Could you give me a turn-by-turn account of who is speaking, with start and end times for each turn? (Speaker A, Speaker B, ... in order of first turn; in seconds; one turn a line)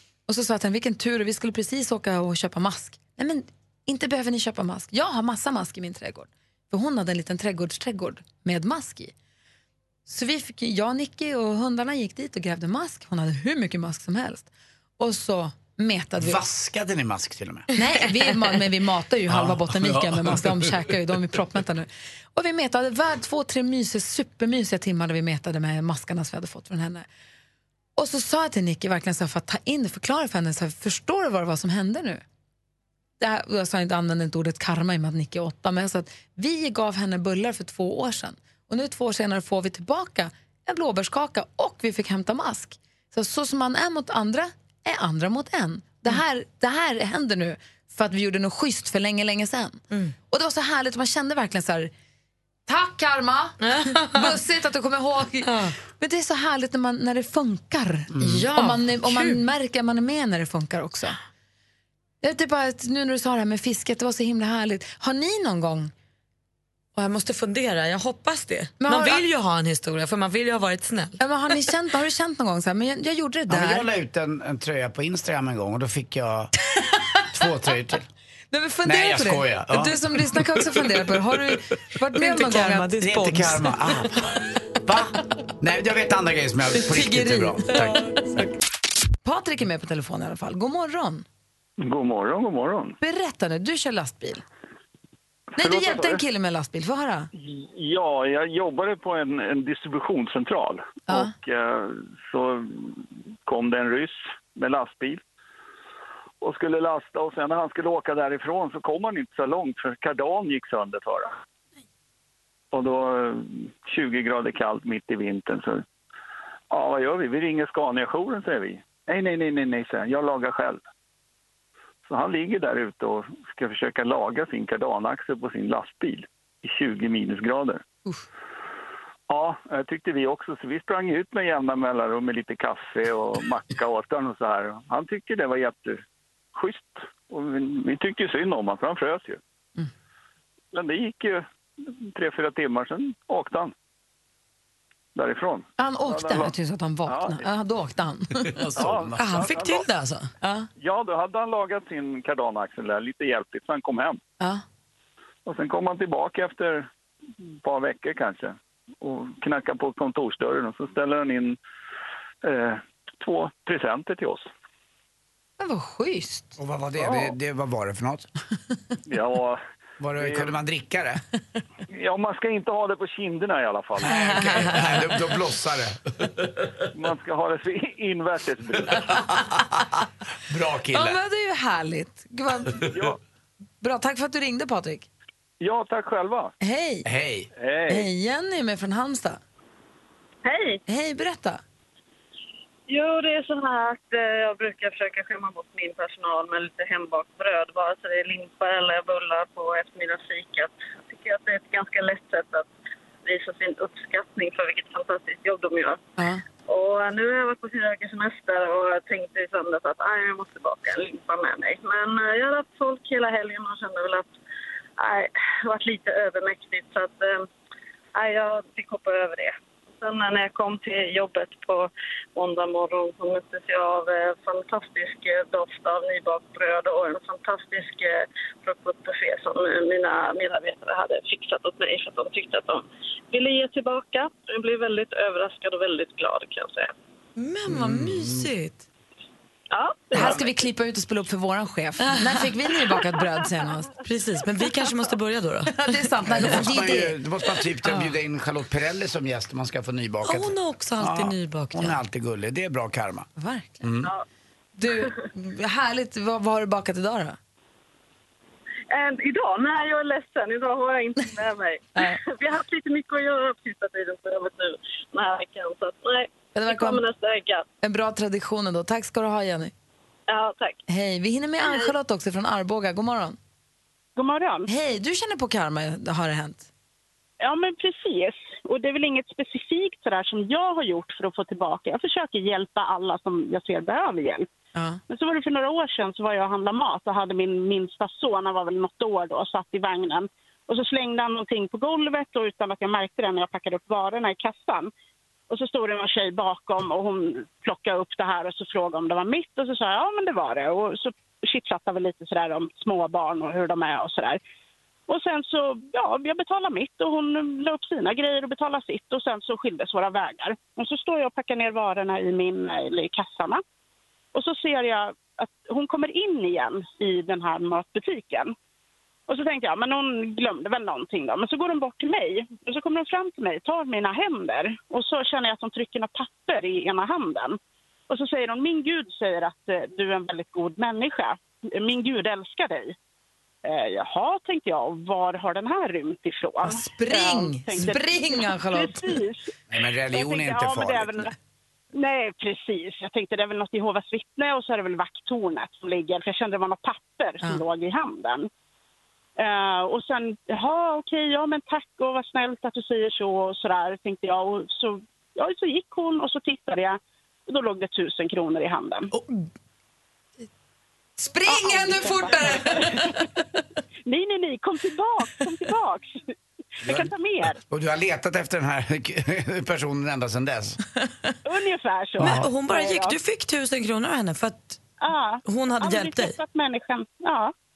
Speaker A: 0.3-9.1
Speaker A: 10.1-16.4
Speaker B: 16.2-17.7
Speaker A: 17.8-27.1
Speaker B: 19.3-20.7
Speaker A: 28.0-32.2
Speaker A: 33.2-51.9
Speaker A: 52.7-61.2
Speaker C: 53.6-54.4
Speaker C: 55.4-55.7
Speaker B: 58.1-58.5
Speaker C: 58.2-59.4
Speaker A: 62.2-65.9
Speaker C: 67.0-71.2
Speaker A: 68.8-69.2
Speaker A: 71.2-73.9
Speaker B: 73.5-76.5
Speaker B: 77.3-78.0
Speaker A: 78.5-83.6
Speaker B: 78.8-80.0
Speaker C: 82.2-83.7
Speaker B: 83.0-84.3
Speaker B: 84.8-88.0
Speaker A: 86.9-88.0
Speaker C: 87.7-88.0
Speaker A: 89.2-91.2
Speaker D: 91.8-93.0
Speaker A: 93.0-94.4
Speaker D: 95.6-96.2
Speaker A: 95.6-97.3
Speaker D: 97.3-105.2
Speaker D: 106.4-111.3
Speaker D: 112.7-115.8
Speaker D: 116.7-120.8
Speaker D: 122.1-127.8
Speaker D: 129.3-136.0
Speaker D: 136.6-139.4
Speaker D: 140.7-143.7
Speaker D: 145.2-146.5
Speaker A: 145.8-148.7
Speaker D: 147.1-147.4
Speaker B: 148.5-149.3
Speaker D: 148.8-149.8
Speaker C: 149.2-150.3
Speaker A: 150.4-150.7
Speaker D: 150.8-154.2
Speaker D: 155.5-156.9
Speaker D: 157.6-161.6
Speaker D: 162.4-164.5
Speaker A: 165.6-166.6
Speaker B: 166.6-168.3
Speaker D: 167.0-167.3
Speaker D: 169.1-169.6
Speaker B: 170.0-171.2
Speaker D: 170.2-170.6
Speaker D: 171.9-174.8
Speaker A: 174.1-174.8
Speaker B: 174.3-176.0
Speaker D: 176.9-179.4
Speaker B: 180.5-181.2
Speaker A: 180.9-182.8
Speaker D: 182.9-183.2
Speaker A: 183.8-185.1
Speaker D: 185.6-186.5
Speaker A: 186.6-187.1
Speaker B: 187.1-187.5
Speaker D: 187.6-188.1
Speaker A: 187.9-189.4
Speaker E: 190.4-190.8
Speaker A: 190.9-191.6
Speaker E: 192.9-202.7
Speaker E: 203.2-206.0
Speaker A: 206.2-206.4
Speaker E: 206.7-214.3
Speaker E: 215.0-217.5
Speaker E: 218.2-236.9
Speaker C: 237.4-238.8
Speaker B: 237.7-238.5
Speaker E: 239.7-240.4
Speaker A: 240.1-243.9
Speaker C: 242.0-242.5
Speaker C: 244.0-246.6
Speaker A: 245.8-247.2
Speaker B: 246.3-253.3
Speaker C: 250.2-252.0
Speaker A: 253.4-253.9
Speaker B: 253.8-254.1
Speaker A: 254.8-257.4
Speaker E: 258.9-267.7
Speaker A: 266.6-267.0
Speaker A: 267.8-269.7
Speaker E: 270.3-270.8
Speaker A: 270.9-273.4
Speaker F: 274.2-274.7
Speaker A: 274.7-276.7
Speaker F: 277.4-284.5
Speaker A: 284.8-285.0
Speaker F: 285.1-294.9
Speaker F: 295.5-304.4
Speaker F: 305.1-313.6
Speaker F: 314.3-318.5
Speaker F: 319.3-327.6
Speaker F: 328.1-332.9
Speaker F: 333.6-339.5
Speaker A: 336.6-339.2
Speaker B: 339.7-341.2
Speaker F: 340.1-341.3
Speaker F: 341.9-348.5
Speaker F: 349.4-359.1
Speaker A: 361.2-363.2
Speaker F: 361.5-363.2
Speaker F: 364.1-367.6
Speaker B: 367.7-370.8
Speaker F: 371.4-373.1
Speaker B: 372.2-372.5
Speaker C: 372.2-374.8
Speaker F: 375.0-377.5
Speaker C: 375.5-376.4